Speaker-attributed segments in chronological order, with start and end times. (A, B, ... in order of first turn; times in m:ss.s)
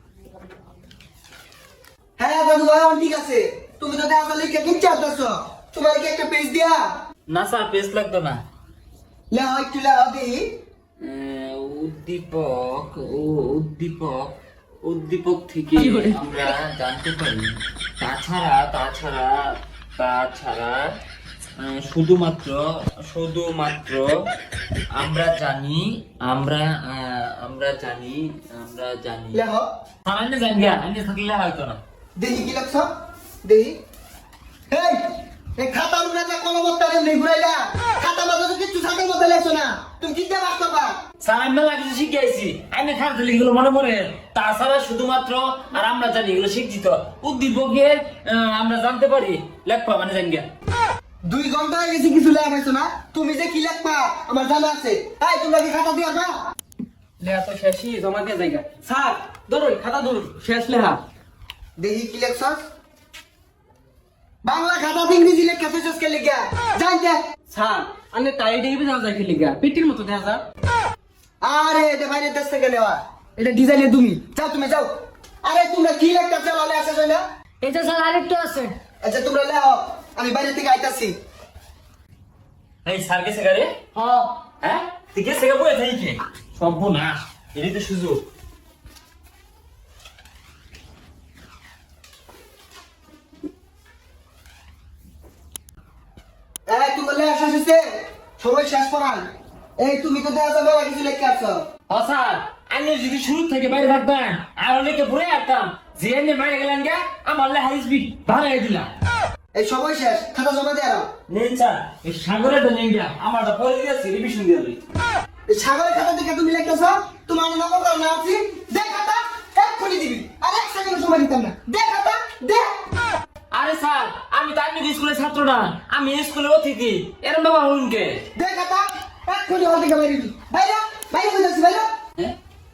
0:02.2-0:06.8 A
0:07.3-0:08.4 B
0:09.3-0:10.5 A
0:11.0-0:20.9 B
0:21.6-0:24.2 B
0:24.9-0:29.4 B
0:29.3-0:29.6 A
0:30.0-0:31.8 B
0:32.2-0:32.9 A
0:33.4-0:33.8 A
0:34.7-0:41.0 A
0:41.2-0:50.5 B
0:51.3-0:56.3 A
0:57.2-1:01.0 C
1:01.8-1:02.6 A
1:04.4-1:07.2 A
1:07.5-1:10.4 C
1:11.4-1:14.9 A
1:15.4-1:17.2 A
1:17.6-1:18.8 C
1:19.0-1:21.2 A
1:22.8-1:23.9 B
1:24.0-1:24.3 C
1:24.5-1:28.2 B
1:36.7-1:37.9 A
1:38.4-1:39.3 A
1:39.8-1:41.6 A
1:41.9-1:48.9 B
1:49.6-1:51.1 A
1:51.3-1:54.8 B
1:55.5-2:02.7 A
2:03.5-2:08.3 B
2:08.4-2:11.9 A